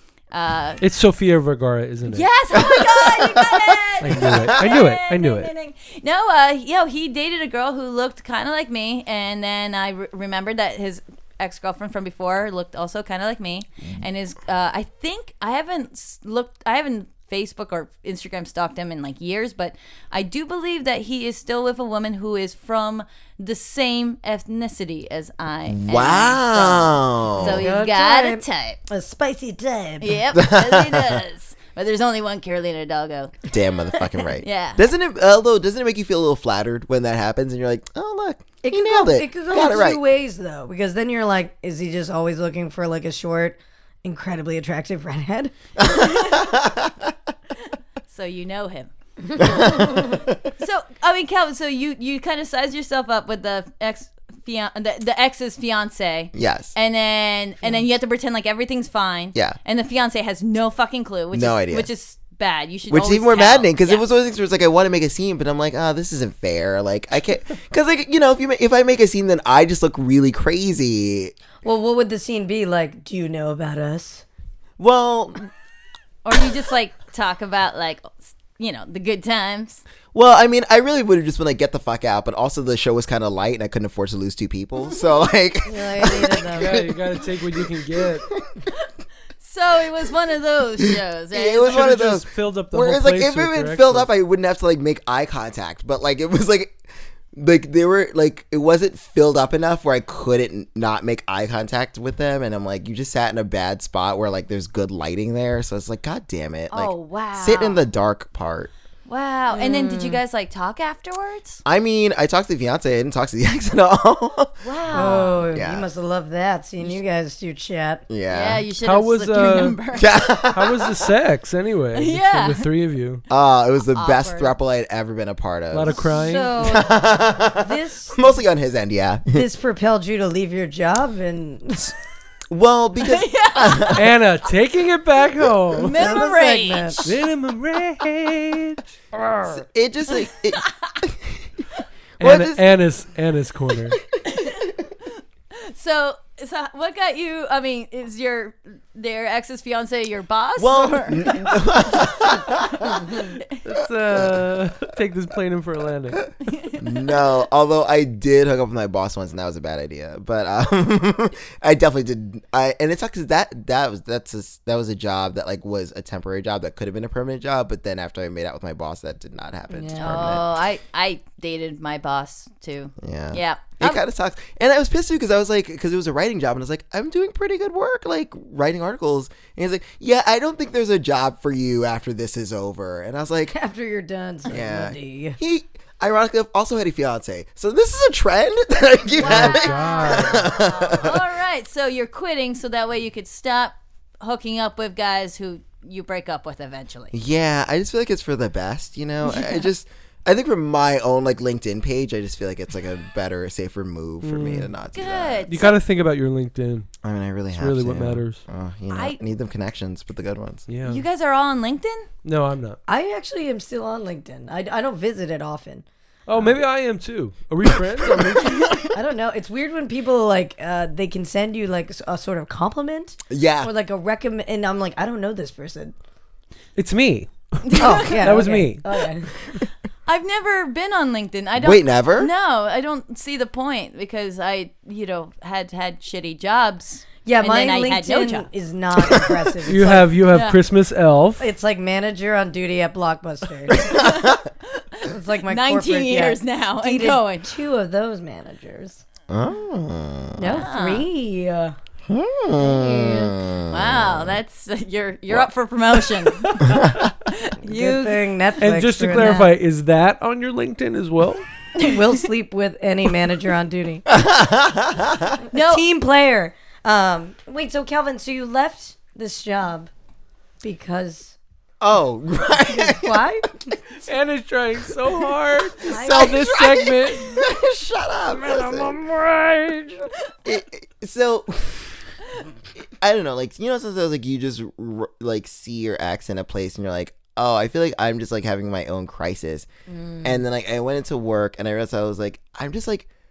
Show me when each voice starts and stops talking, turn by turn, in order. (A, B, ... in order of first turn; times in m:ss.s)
0:00.3-0:00.8 A
0:00.8-0:02.3 B
0:02.1-0:28.8 A
0:02.6-0:04.7 C
0:04.0-0:05.5 B
0:25.7-0:27.7 C
0:27.4-0:30.3 D
0:30.0-0:33.3 A
0:30.4-0:31.2 C
0:33.5-0:40.0 C
0:34.4-0:34.8 A
0:38.6-0:45.5 D
0:45.8-0:47.1 C
0:46.0-0:46.4 A
0:48.1-0:49.9 A
0:49.4-0:50.4 C
0:50.6-1:04.0 A
0:56.3-0:56.7 C
1:01.3-1:01.9 C
1:02.9-1:11.3 C
1:11.6-1:14.2 D
1:14.8-1:15.5 C
1:16.2-1:19.8 A
1:20.1-1:26.9 C
1:25.6-1:26.8 D
1:26.6-1:28.3 B
1:29.4-1:31.8 A
1:31.3-1:36.8 C
1:31.7-1:34.1 B
1:37.3-1:48.7 C
1:46.7-1:47.8 A
1:49.1-1:51.6 A
1:49.5-1:50.2 D
1:51.6-1:55.9 C
1:54.6-1:55.5 A
1:54.9-1:58.1 D
1:58.1-1:58.6 C
1:58.3-2:00.1 A
1:58.8-1:59.8 B
1:59.9-2:01.1 C
2:00.5-2:03.2 B
2:02.0-2:02.7 A
2:03.3-2:06.0 C
2:03.9-2:04.5 A
2:05.7-2:06.6 B
2:06.1-2:08.4 D
2:06.6-2:09.5 C
2:09.3-2:11.9 D
2:12.5-2:14.1 C
2:13.0-2:14.0 A
2:13.9-2:16.2 B
2:15.8-2:17.2 A
2:15.9-2:17.1 D
2:17.0-2:19.0 B
2:19.4-2:21.4 C
2:20.6-2:20.9 A
2:22.2-2:24.0 B
2:22.2-2:22.8 C
2:24.3-2:24.8 A
2:25.6-2:31.7 A
2:30.6-2:33.3 C
2:33.6-2:36.3 B
2:36.4-2:36.8 A
2:36.8-2:50.5 C
2:49.7-2:50.4 D
2:50.0-2:54.0 A
2:53.0-3:03.6 C
3:03.5-3:05.4 D
3:04.5-3:11.2 C
3:09.2-3:10.5 B
3:09.4-3:10.2 D
3:09.9-3:17.1 A
3:17.1-3:25.5 C
3:19.2-3:19.7 A
3:24.2-3:24.7 B
3:24.9-3:25.8 A
3:25.5-3:26.9 B
3:27.0-3:30.6 C
3:27.5-3:28.4 B
3:28.9-3:29.2 A
3:30.7-3:31.0 B
3:30.9-3:32.1 A
3:32.2-3:32.8 B
3:32.9-3:35.8 D
3:36.3-3:38.8 B
3:38.6-3:38.9 A
3:38.9-3:45.9 D
3:43.3-3:43.7 C
3:46.8-3:48.8 B
3:47.6-3:48.4 A
3:47.7-3:49.6 D
3:50.1-3:58.5 A
3:51.6-3:52.3 C
3:57.2-4:00.1 D
3:59.6-4:01.5 B
4:00.3-4:00.6 A
4:01.4-4:03.9 D
4:03.8-4:04.2 C
4:03.8-4:07.6 A
4:05.1-4:09.0 D
4:09.3-4:10.7 C
4:10.4-4:11.8 D
4:10.5-4:11.1 A
4:12.1-4:14.4 C
4:12.6-4:13.4 D
4:13.7-4:18.3 A
4:16.6-4:17.0 C
4:17.6-4:19.5 D
4:18.6-4:21.4 B
4:21.8-4:24.0 D
4:24.1-4:25.4 C
4:25.5-4:25.8 A
4:25.5-4:29.9 D
4:30.6-4:31.4 D
4:31.8-4:33.3 C
4:32.7-4:33.8 D
4:34.0-4:37.4 B
4:35.9-4:36.4 D
4:35.9-4:39.0 C
4:38.3-4:40.0 B
4:40.4-4:42.0 C
4:42.8-4:49.7 C
4:49.9-4:50.4 D
4:50.2-4:53.1 C